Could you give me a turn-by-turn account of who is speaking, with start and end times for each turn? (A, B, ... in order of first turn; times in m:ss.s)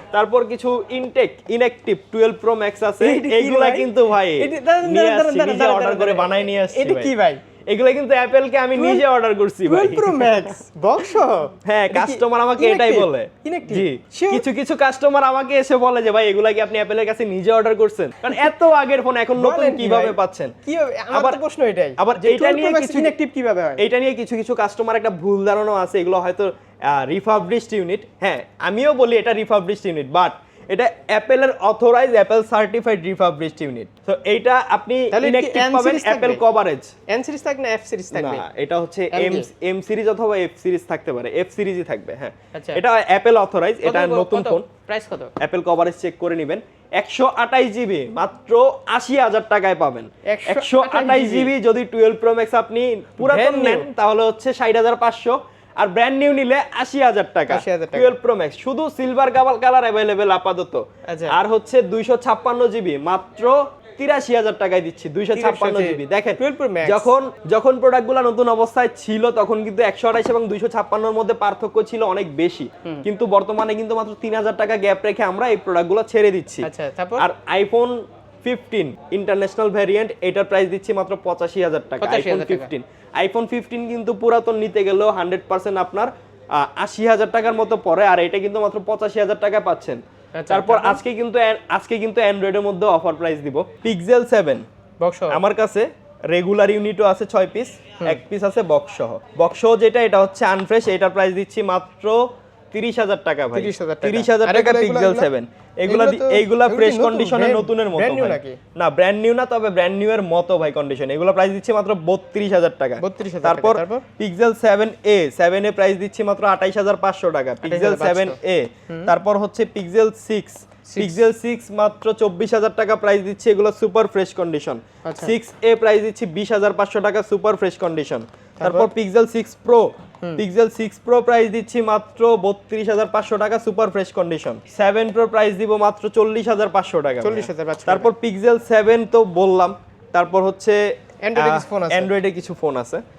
0:00.1-0:07.1 A
0:03.0-0:07.4 B
0:07.7-0:10.5 A
0:08.8-0:09.0 B
0:09.7-0:14.4 B
0:11.7-0:20.6 A
0:19.4-0:23.8 B
0:21.1-0:21.4 A
0:22.0-0:23.1 A
0:23.8-0:36.9 A
0:35.1-0:36.4 B
0:37.1-0:38.4 B
0:38.1-0:44.7 A
0:39.1-0:39.5 B
0:42.5-0:42.8 B
0:43.8-0:45.3 B
0:45.4-1:34.7 A
0:50.3-0:51.5 B
0:53.2-0:53.9 B
0:57.5-0:58.2 B
1:01.1-1:01.4 B
1:05.3-1:07.1 B
1:16.6-1:17.3 B
1:22.0-1:22.7 B
1:30.4-1:31.0 B
1:35.0-1:35.4 B
1:35.3-2:20.8 A
1:43.6-1:45.3 B
1:45.9-1:48.6 B
1:53.0-1:54.0 B
1:57.6-1:58.4 B
2:00.9-2:01.3 B
2:05.0-2:05.3 B
2:08.6-2:08.9 B
2:17.2-2:18.1 B
2:21.2-2:22.1 B
2:21.4-2:23.0 A